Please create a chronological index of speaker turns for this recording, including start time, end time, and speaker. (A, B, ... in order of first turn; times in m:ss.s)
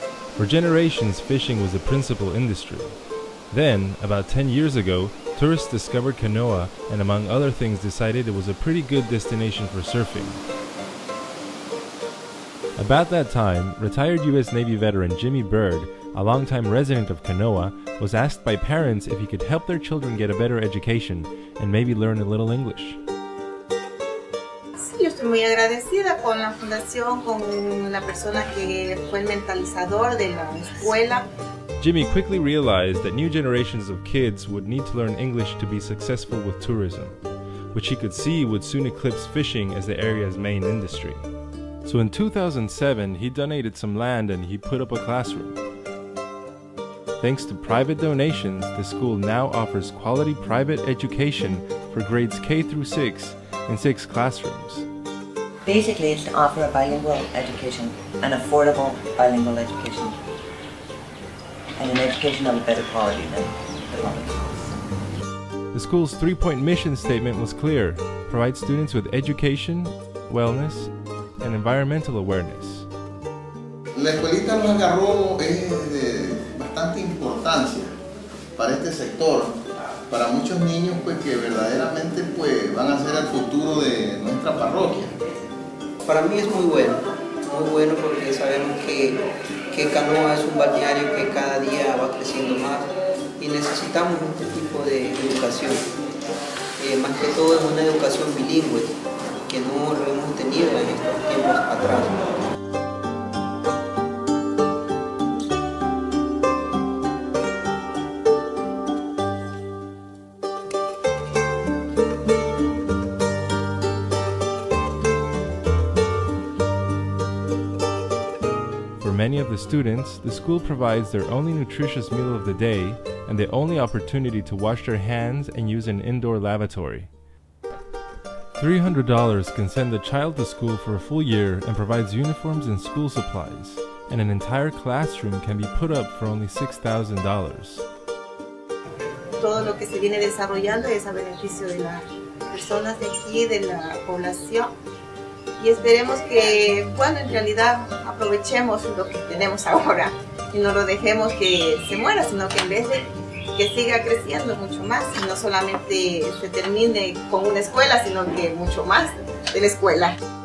0:00.4-0:03.0 A
0:03.5-0:10.4 A
0:12.8-0:23.0 A
0:24.8-0:31.2 B
0:31.8-0:37.2 A
0:37.7-0:41.3 A
0:41.8-0:45.6 A
0:47.2-0:54.9 A
0:55.6-1:00.2 C
1:01.8-1:04.8 C
1:05.7-1:12.9 A
1:13.9-1:17.9 D
1:18.6-1:19.5 D
1:20.1-1:25.1 D
1:26.0-1:29.2 E
1:29.7-1:32.9 E
1:33.4-1:35.9 E
1:36.8-1:38.9 E
1:39.5-1:42.2 E
1:59.0-2:07.1 A
2:08.6-2:17.8 A
2:19.4-2:24.7 B
2:25.6-2:40.2 B